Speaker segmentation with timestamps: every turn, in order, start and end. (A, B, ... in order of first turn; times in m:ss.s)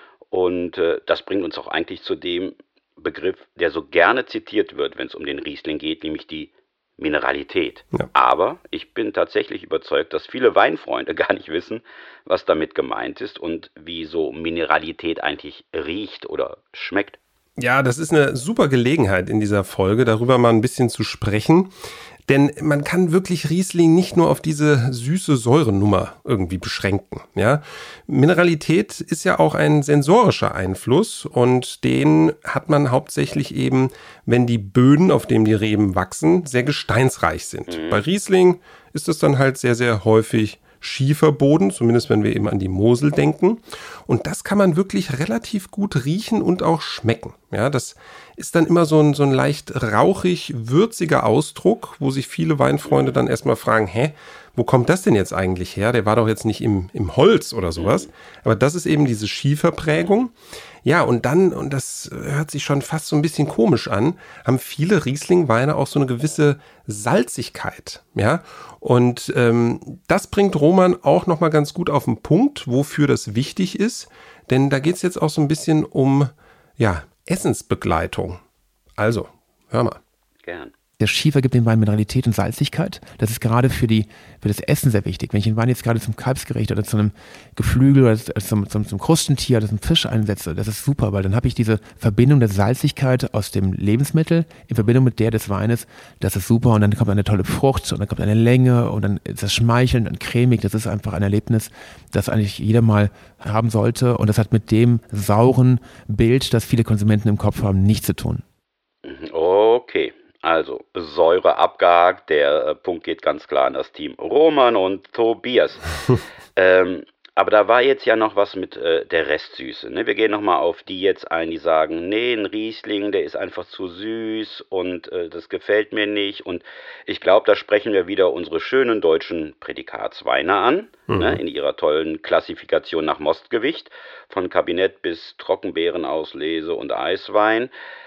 0:00.3-0:17.2 A
0:17.6-0:21.7 B
0:22.3-1:00.3 B
0:37.7-0:38.0 A
0:57.8-0:58.1 A
1:00.8-1:18.4 B
1:19.0-1:20.0 B
1:20.4-1:20.7 A
1:21.0-1:48.4 C
1:49.0-1:55.8 A
1:56.6-2:17.7 A
2:11.1-2:11.4 B